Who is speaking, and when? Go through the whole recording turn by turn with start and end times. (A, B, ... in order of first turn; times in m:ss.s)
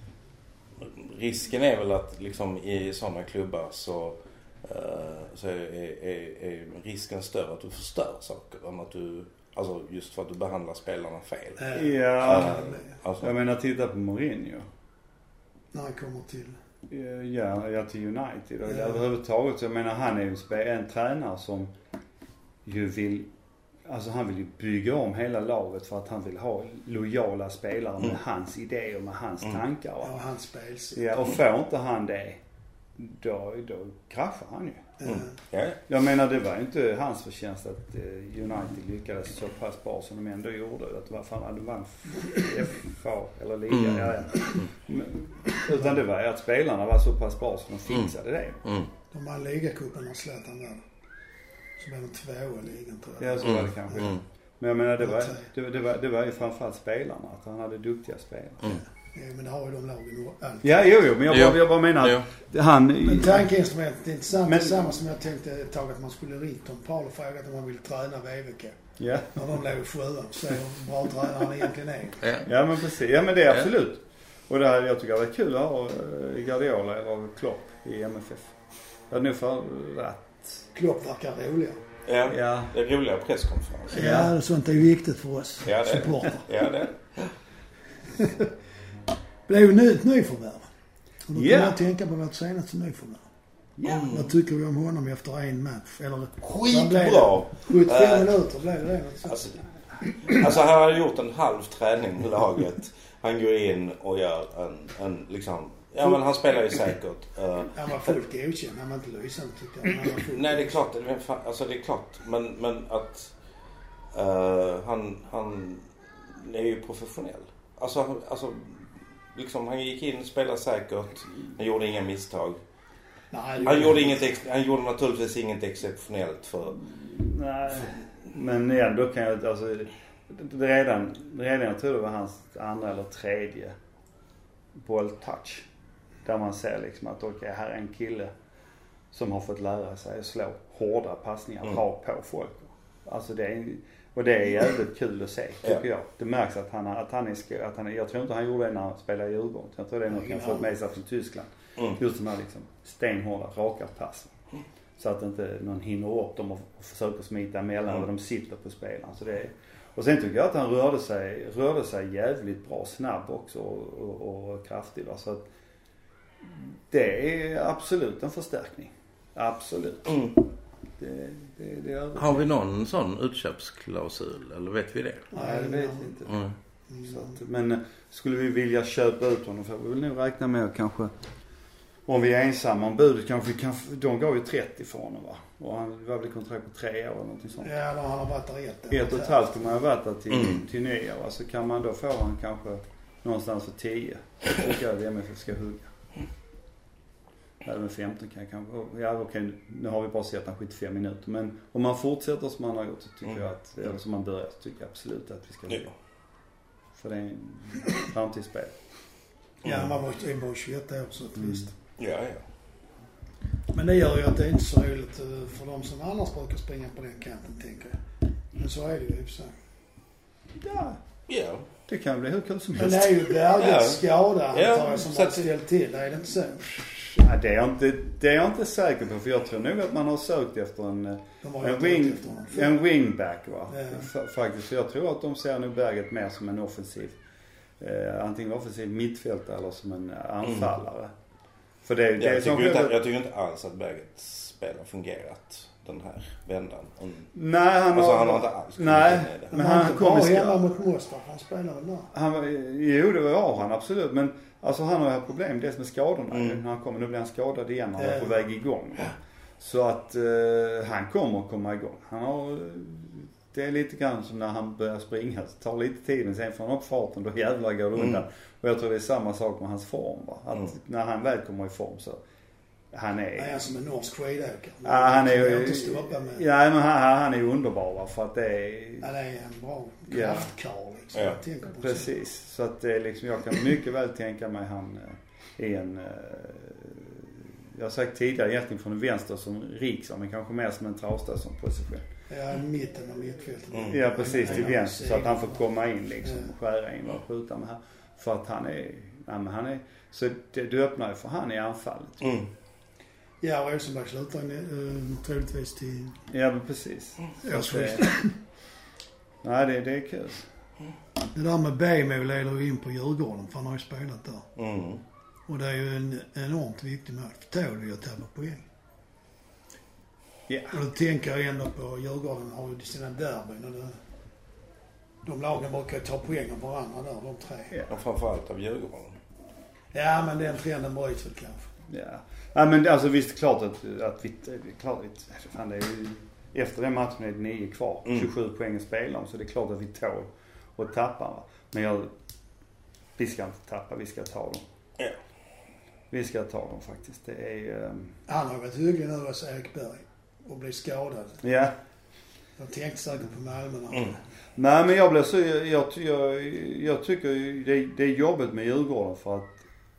0:00.8-0:13.3 A
0:11.6-0:12.9 B
0:11.7-0:14.6 C
0:15.7-0:16.6 B
0:16.9-0:21.7 C
0:18.7-0:19.0 B
0:22.6-0:23.3 C
0:23.8-0:30.2 C
0:30.0-0:31.2 B
0:30.9-0:32.4 C
0:33.0-0:34.9 C
0:35.0-0:35.3 B
0:35.0-0:35.8 A
0:35.9-0:48.6 C
0:43.7-0:44.7 A
0:48.6-0:48.9 A
0:49.1-0:50.8 B
0:51.8-0:53.6 B
0:53.2-0:58.8 C
0:53.4-0:54.2 A
0:55.0-0:55.5 B
0:59.1-1:01.0 B
1:00.6-1:03.5 C
1:01.3-1:02.3 A
1:03.0-1:08.8 B
1:04.5-1:04.8 C
1:09.0-1:09.3 C
1:09.3-1:12.3 B
1:12.2-1:12.5 A
1:12.4-1:18.5 C
1:19.1-1:20.6 C
1:20.7-1:21.8 B
1:22.1-1:24.1 A
1:22.3-1:22.7 C
1:23.9-1:26.5 B
1:23.9-1:24.4 C
1:25.6-1:27.3 A
1:28.1-1:28.5 B
1:29.5-1:30.7 B
1:31.3-1:33.2 B
1:31.3-1:31.8 C
1:33.8-1:34.2 C
1:33.8-1:34.3 A
1:34.1-1:39.4 B
1:36.4-1:38.3 A
1:39.3-1:48.1 A
1:47.7-1:50.9 B
1:50.2-1:53.3 A
1:54.1-2:02.6 A
2:03.3-2:04.3 B
2:03.6-2:06.8 A
2:06.8-2:13.8 C
2:14.8-2:15.7 C
2:16.2-2:18.3 C
2:19.1-2:34.3 C
2:30.1-2:30.7 B
2:35.0-2:45.5 C
2:46.4-2:50.3 C
2:50.1-2:50.4 A
2:51.0-2:52.5 C
2:52.2-2:55.3 A
2:55.3-2:56.1 B
2:55.4-2:56.4 C
2:56.3-2:56.6 A
2:56.9-2:57.4 B
2:57.0-3:01.1 C
3:02.1-3:07.7 C
3:07.6-3:09.8 B
3:08.9-3:15.9 C
3:17.6-3:25.9 C
3:26.9-3:28.8 C
3:29.6-3:31.7 B
3:29.6-3:30.0 A
3:31.4-3:31.6 C
3:32.0-3:32.4 A
3:33.7-3:38.0 B
3:38.6-3:39.5 B
3:40.6-3:41.0 C
3:41.3-3:41.6 A
3:41.9-3:43.2 C
3:42.8-3:46.7 B
3:43.5-3:45.5 A
3:47.2-3:57.2 C
3:51.4-3:52.7 B
3:53.7-3:54.1 B
3:57.8-4:01.1 C
4:01.8-4:03.0 C
4:02.2-4:07.3 A
4:07.3-4:10.6 C
4:07.9-4:09.5 A
4:09.5-4:12.1 B
4:12.1-4:32.2 C
4:16.3-4:16.6 A
4:18.0-4:18.4 B
4:32.9-4:33.6 C
4:33.4-4:36.4 B
4:34.8-4:39.1 C
4:39.0-4:42.1 B
4:40.1-4:40.5 C
4:41.8-4:52.1 C
4:52.3-4:55.6 B
4:53.7-4:54.6 A
4:53.9-5:02.4 C
4:56.2-4:56.5 B
5:02.2-5:02.5 A
5:03.4-5:06.2 B
5:06.3-5:08.1 C
5:07.4-5:08.4 B
5:09.4-5:10.5 C
5:11.3-5:14.5 B
5:14.6-5:15.0 A
5:15.5-5:18.6 B
5:20.5-5:20.8 C
5:20.7-5:24.0 B
5:25.2-5:27.8 B
5:27.9-5:29.2 A
5:29.9-5:31.7 B
5:31.9-5:42.1 C
5:43.2-5:44.6 C
5:46.1-5:48.2 C
5:48.3-5:51.4 B
5:51.4-5:51.8 C
5:52.6-5:54.2 B
5:54.6-5:59.6 C